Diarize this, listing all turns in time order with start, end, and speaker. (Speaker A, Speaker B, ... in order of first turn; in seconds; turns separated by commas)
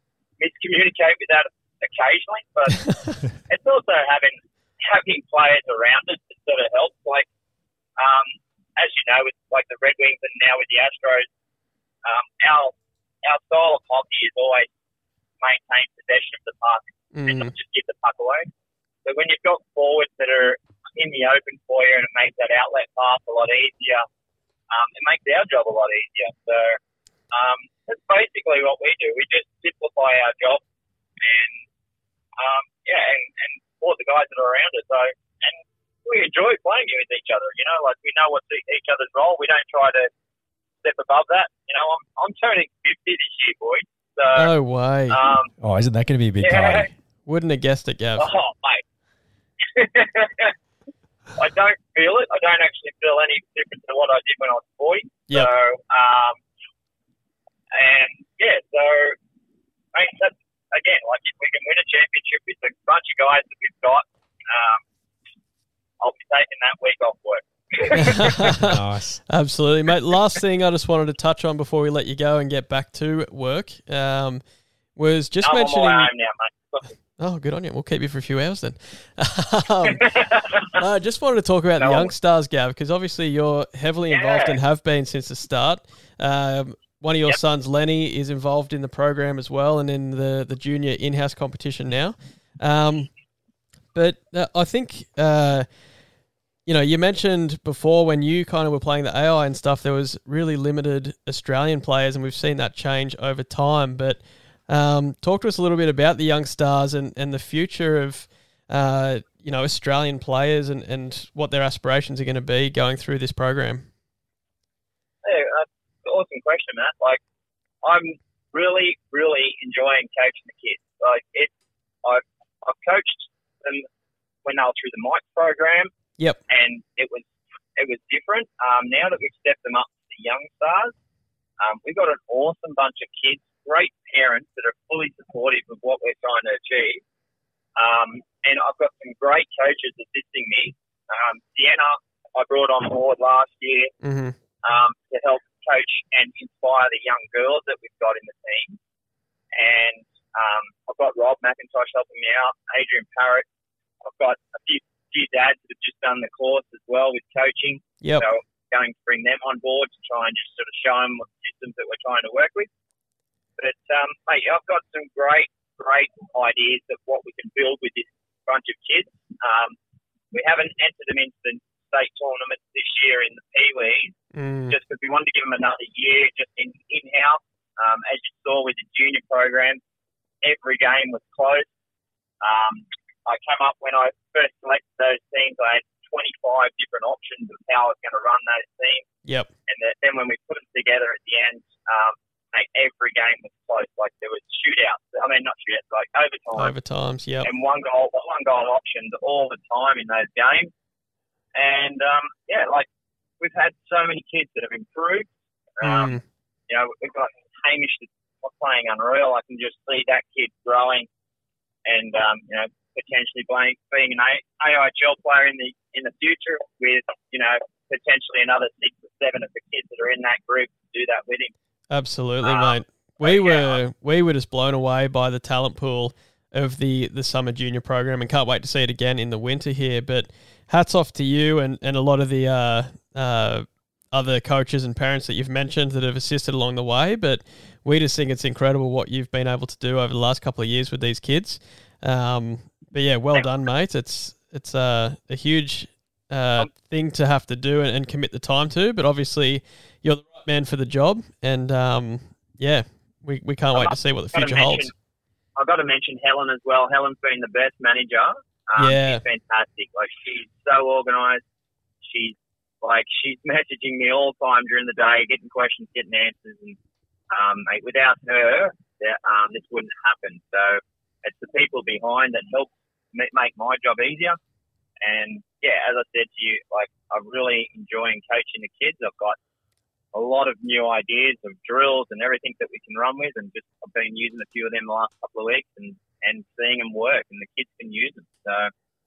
Speaker A: 0.4-7.3, Speaker A: 8.0-11.3, Speaker A: 12.0-14.7, Speaker A: 15.4-18.5, Speaker B: 17.1-17.5, Speaker A: 19.0-24.0, Speaker A: 24.7-26.8, Speaker A: 27.3-30.6, Speaker A: 31.2-31.6, Speaker A: 32.4-40.1, Speaker A: 40.8-44.5, Speaker B: 44.3-45.2, Speaker A: 45.1-45.5, Speaker C: 45.6-46.9, Speaker A: 46.4-46.9, Speaker B: 47.2-48.3, Speaker A: 48.2-48.8, Speaker A: 49.7-50.5, Speaker A: 51.4-56.4, Speaker A: 57.7-59.1, Speaker A: 59.9-64.8, Speaker A: 66.0-68.5, Speaker B: 67.9-74.4, Speaker C: 68.4-69.2, Speaker B: 75.0-76.1, Speaker A: 75.4-76.9, Speaker B: 77.2-93.1, Speaker A: 79.9-80.8, Speaker A: 81.8-82.1, Speaker A: 84.1-84.6, Speaker B: 93.9-95.7, Speaker B: 96.7-113.9, Speaker A: 115.2-117.2, Speaker A: 117.8-121.5, Speaker A: 122.0-123.8, Speaker A: 124.4-125.9, Speaker A: 126.5-127.2, Speaker A: 127.8-130.9, Speaker A: 131.6-137.0, Speaker A: 137.8-143.9, Speaker B: 144.0-144.3, Speaker A: 144.6-148.8, Speaker A: 149.5-153.4, Speaker A: 154.0-162.7, Speaker A: 163.6-169.8, Speaker A: 170.3-174.2, Speaker B: 174.3-174.8, Speaker A: 174.7-179.8, Speaker A: 180.4-181.7, Speaker A: 182.4-189.1, Speaker A: 189.7-196.7, Speaker B: 196.6-197.5, Speaker A: 197.4-200.7, Speaker A: 201.5-202.9, Speaker A: 203.4-206.2, Speaker B: 205.8-206.2, Speaker A: 206.7-211.1, Speaker A: 211.8-221.5, Speaker B: 221.9-254.9, Speaker A: 222.4-223.8, Speaker A: 253.7-254.9, Speaker A: 255.6-261.4, Speaker B: 258.8-259.2, Speaker A: 262.0-266.8, Speaker A: 267.3-274.4, Speaker A: 275.0-279.4, Speaker A: 280.1-288.7